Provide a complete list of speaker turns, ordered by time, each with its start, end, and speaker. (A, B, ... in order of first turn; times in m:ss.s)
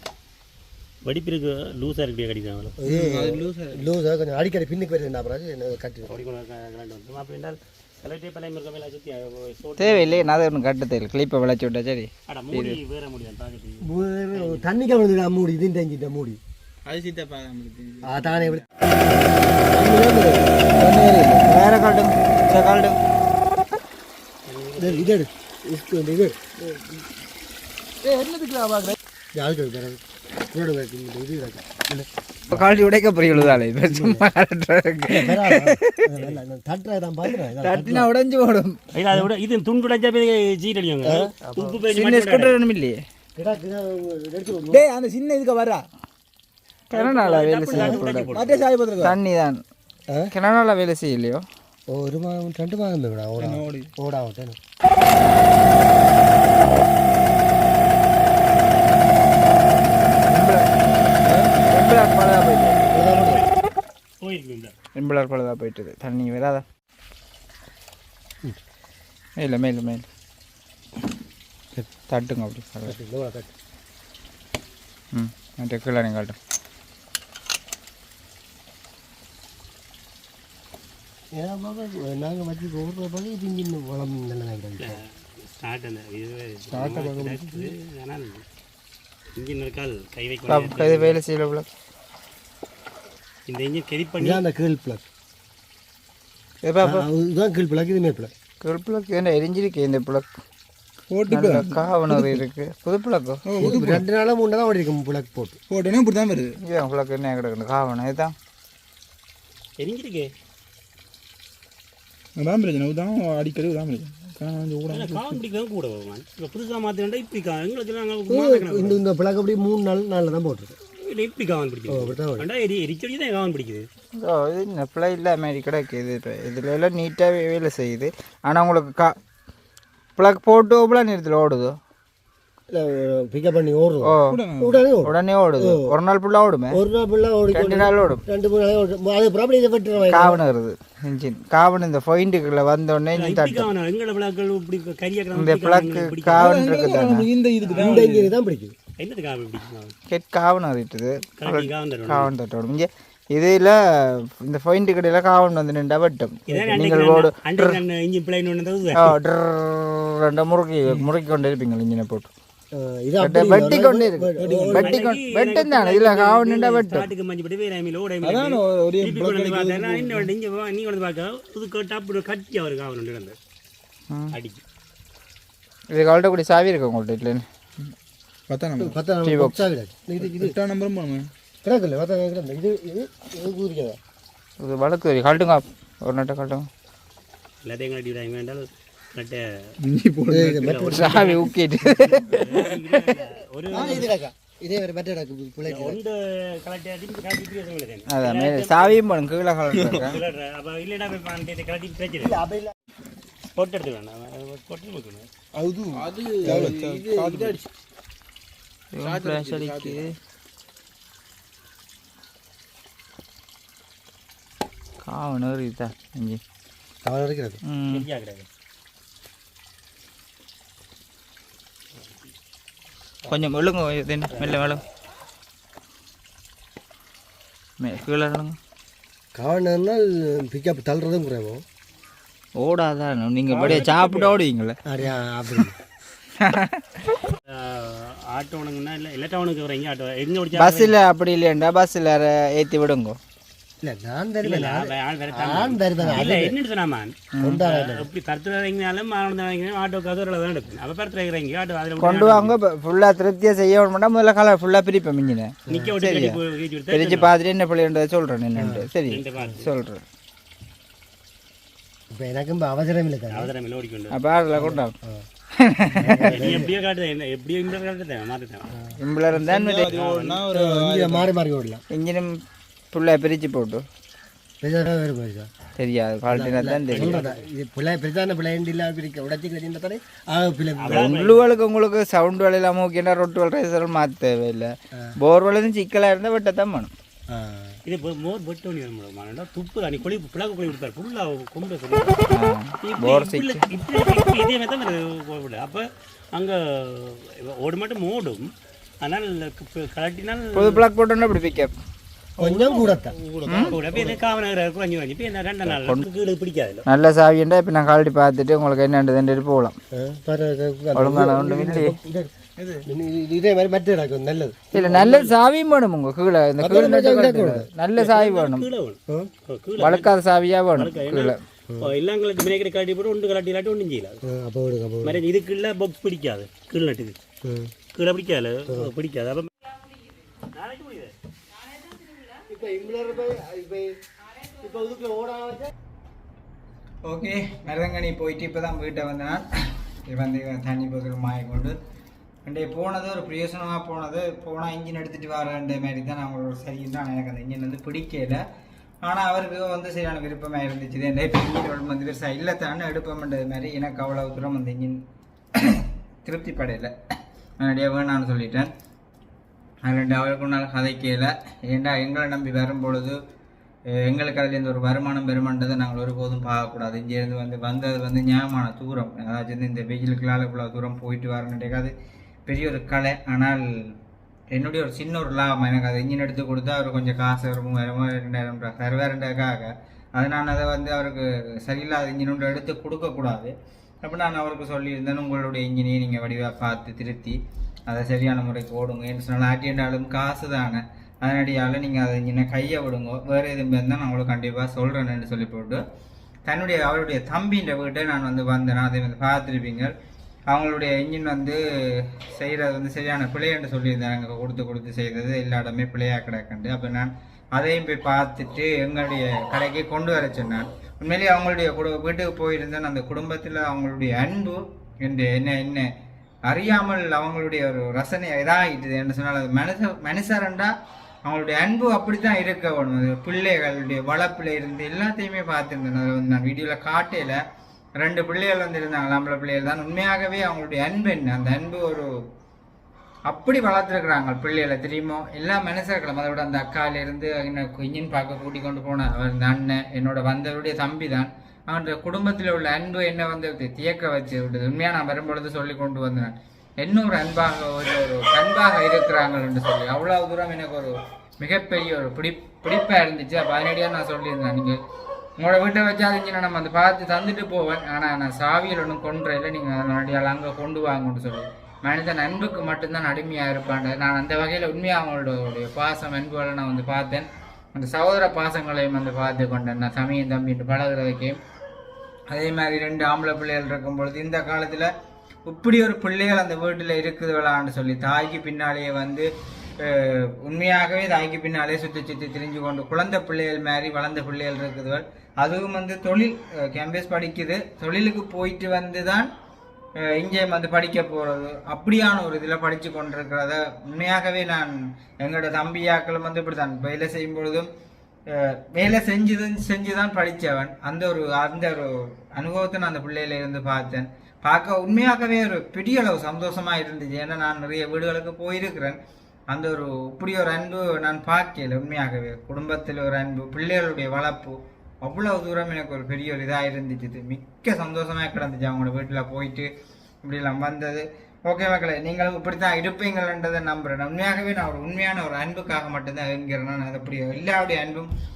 0:01.0-0:02.8 A
0:02.8-0:06.2 B
0:02.9-0:03.9 C
0:06.1-0:10.3 A
0:09.8-0:12.8 D
0:12.3-0:14.7 A
0:13.8-0:16.4 B
0:16.9-0:18.6 C
0:18.0-0:18.6 B
0:19.6-0:20.5 B
0:20.8-0:21.5 C
0:21.5-0:23.0 D
0:24.5-0:25.1 A
0:24.8-0:27.0 B
0:28.0-0:29.0 C
0:29.4-0:32.7 B
0:32.5-0:36.1 D
0:33.3-0:34.2 B
0:35.1-0:38.1 B
0:36.2-0:36.4 A
0:37.6-0:38.8 D
0:38.9-0:42.6 A
0:41.0-0:41.8 B
0:41.9-0:43.0 D
0:43.4-0:44.9 B
0:44.7-0:45.9 C
0:46.9-0:48.3 D
0:46.9-0:48.7 A
0:48.3-0:49.2 C
0:49.0-0:49.6 D
0:50.3-0:51.4 D
0:51.9-0:54.6 B
0:53.4-0:53.9 C
1:00.2-1:00.7 D
1:01.2-1:01.6 C
1:01.6-1:03.0 D
1:02.9-1:03.5 B
1:03.0-1:03.5 A
1:04.2-1:04.7 A
1:05.0-1:06.6 D
1:09.4-1:10.1 D
1:12.0-1:13.0 D
1:12.8-1:13.5 B
1:15.1-1:16.4 D
1:21.4-1:25.0 B
1:24.8-1:28.4 A
1:26.7-1:27.7 B
1:29.4-1:31.2 A
1:30.5-1:31.7 D
1:33.5-1:34.4 A
1:34.2-1:35.0 B
1:36.6-1:37.1 D
1:36.8-1:38.3 B
1:38.6-1:40.3 D
1:41.1-1:42.4 C
1:41.3-1:43.4 D
1:43.5-1:44.0 C
1:43.6-1:45.6 B
1:45.7-1:46.6 C
1:46.6-1:48.4 D
1:49.8-1:50.3 A
1:52.4-1:55.4 C
1:54.9-1:59.0 A
1:58.3-2:00.8 B
2:01.0-2:03.9 A
2:01.9-2:02.5 B
2:04.2-2:09.2 D
2:10.2-2:11.8 D
2:12.7-2:15.9 B
2:14.0-2:14.4 D
2:14.3-2:14.8 C
2:15.0-2:16.8 D
2:16.7-2:20.4 B
2:17.5-2:18.2 D
2:20.0-2:23.7 D
2:23.2-2:26.5 A
2:25.4-2:27.3 D
2:26.4-2:28.3 C
2:27.6-2:28.0 A
2:27.7-2:28.8 B
2:29.0-2:30.0 A
2:30.1-2:37.8 D
2:31.4-2:32.3 A
2:36.5-2:39.2 A
2:39.0-2:42.3 D
2:42.7-2:45.0 B
2:43.2-2:47.1 D
2:44.4-2:53.4 A
2:48.2-2:50.3 C
2:54.3-2:54.6 A
2:55.9-2:57.4 D
2:58.5-2:59.0 C
2:58.8-3:00.5 B
2:59.2-2:59.6 D
3:00.2-3:01.3 C
3:01.6-3:04.0 B
3:04.6-3:06.7 D
3:07.6-3:09.8 A
3:09.8-3:10.9 C
3:10.3-3:11.5 B
3:10.6-3:11.5 A
3:10.9-3:13.1 D
3:12.3-3:14.1 A
3:13.7-3:16.0 B
3:15.7-3:19.0 A
3:18.1-3:20.2 D
3:19.8-3:22.4 A
3:22.2-3:22.7 B
3:23.5-3:25.3 A
3:25.6-3:27.6 B
3:25.9-3:27.7 C
3:28.9-3:30.2 D
3:29.0-3:30.0 C
3:35.0-3:36.4 D
3:37.0-3:37.6 B
3:37.6-3:38.0 D
3:37.9-3:38.5 A
3:43.3-3:44.8 D
3:47.8-3:48.6 D
3:49.4-3:51.6 B
3:52.6-3:54.8 D
3:53.5-3:54.4 A
3:54.9-3:55.8 B
3:56.4-3:57.2 D
3:57.5-4:00.9 A
4:00.6-4:03.2 D
4:03.8-4:06.6 B
4:04.4-4:12.6 A
4:07.4-4:07.6 D
4:07.4-4:08.1 B
4:12.0-4:16.4 D
4:15.7-4:17.3 A
4:16.9-4:20.0 D
4:18.6-4:18.9 B
4:19.1-4:19.7 A
4:22.1-4:23.5 B
4:23.3-4:24.2 A
4:24.1-4:24.9 D
4:24.6-4:25.3 B
4:25.6-4:26.4 D
4:26.0-4:26.7 B
4:26.2-4:28.7 A
4:29.0-4:29.9 D
4:29.3-4:31.3 C
4:29.9-4:30.4 A
4:30.5-4:31.8 B
4:31.9-4:32.4 D
4:32.9-4:33.8 D
4:34.6-4:35.5 B
4:35.8-4:37.2 D
4:36.3-4:41.2 B
4:36.9-4:37.5 A
4:40.8-4:41.5 A
4:40.9-4:46.9 D
4:47.3-4:47.8 B
4:47.9-4:52.3 A
4:52.3-4:53.7 D
4:52.8-4:58.5 A
4:59.0-5:00.8 A
5:00.5-5:01.7 D
5:02.4-5:03.2 B
5:02.4-5:04.2 C
5:03.5-5:03.7 D
5:03.6-5:06.9 A
5:05.7-5:06.0 D
5:06.9-5:09.8 D
5:09.9-5:12.3 B
5:11.0-5:12.0 D
5:12.6-5:12.9 C
5:12.9-5:15.2 B
5:14.7-5:18.7 D
5:14.9-5:15.2 A
5:16.6-5:17.7 B
5:18.0-5:20.2 A
5:19.8-5:21.4 D
5:20.8-5:24.2 A
5:24.2-5:25.2 B
5:25.0-5:27.2 A
5:27.4-5:27.7 B
5:27.9-5:29.5 A
5:30.5-5:31.1 A
5:32.5-5:34.0 B
5:34.6-5:35.7 B
5:37.0-5:39.5 D
5:40.1-5:41.8 D
5:42.5-5:48.4 D
5:49.0-5:55.0 D
5:55.6-5:56.9 D
5:57.6-5:58.7 D
5:59.8-6:03.2 D
6:03.9-6:11.9 D
6:12.5-6:13.7 D
6:14.5-6:35.8 D
6:36.5-6:39.9 D
6:40.5-6:55.9 D
6:56.5-7:00.7 D
7:01.2-7:07.4 D
7:08.0-7:12.1 D
7:13.3-7:34.8 D
7:35.4-7:51.4 D
7:52.3-7:54.9 D
7:55.5-7:59.3 D
7:59.8-8:09.3 D
8:10.0-8:17.7 D
8:18.3-8:29.0 D
8:29.5-8:39.7 D
8:40.2-8:48.1 D